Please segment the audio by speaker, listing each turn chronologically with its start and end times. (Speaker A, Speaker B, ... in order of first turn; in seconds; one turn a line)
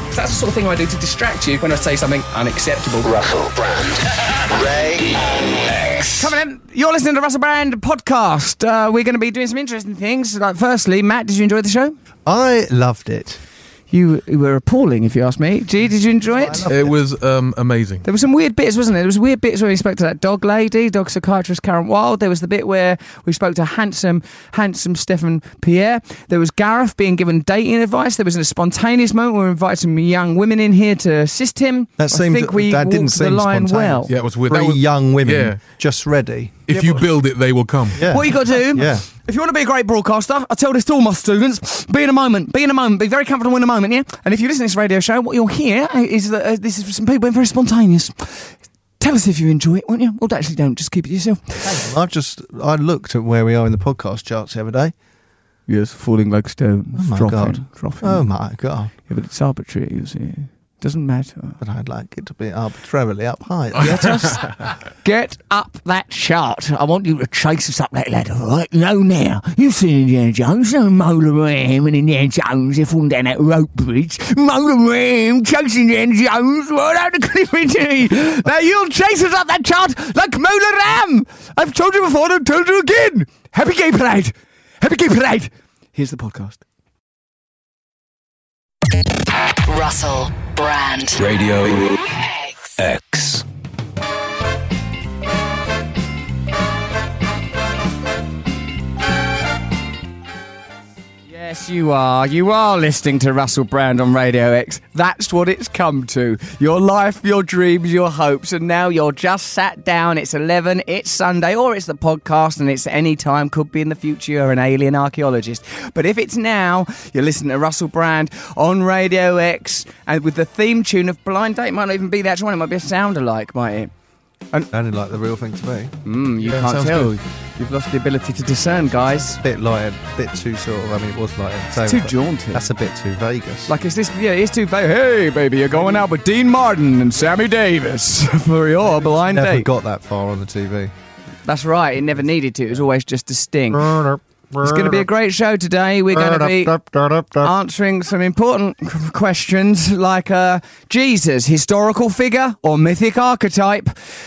Speaker A: 0.1-3.1
Speaker B: 3.0-6.3
Speaker A: 6.2-11.9
Speaker C: 12.3-13.4
Speaker A: 13.9-16.7
Speaker C: 16.3-16.9
Speaker D: 16.7-18.1
Speaker A: 18.0-34.1
Speaker C: 32.0-36.7
Speaker D: 34.1-35.6
Speaker D: 36.7-38.1
Speaker A: 36.7-37.0
Speaker C: 38.0-39.1
Speaker A: 38.0-51.9
Speaker C: 51.6-54.9
Speaker A: 55.7-58.3
Speaker C: 56.9-58.9
Speaker A: 59.0-61.6
Speaker C: 61.6-64.6
Speaker A: 63.8-86.6
Speaker E: 89.7-91.2
Speaker B: 91.2-92.0
Speaker E: 92.1-92.7
Speaker B: 92.8-93.4
Speaker A: 101.3-123.9
Speaker C: 124.7-126.0
Speaker A: 126.0-129.4
Speaker D: 126.4-127.2
Speaker C: 128.8-133.7
Speaker A: 131.8-132.7
Speaker A: 133.7-139.7
Speaker C: 139.1-140.9
Speaker A: 141.4-144.1
Speaker C: 143.7-145.1
Speaker A: 144.6-146.8
Speaker C: 146.1-147.5
Speaker A: 147.4-153.9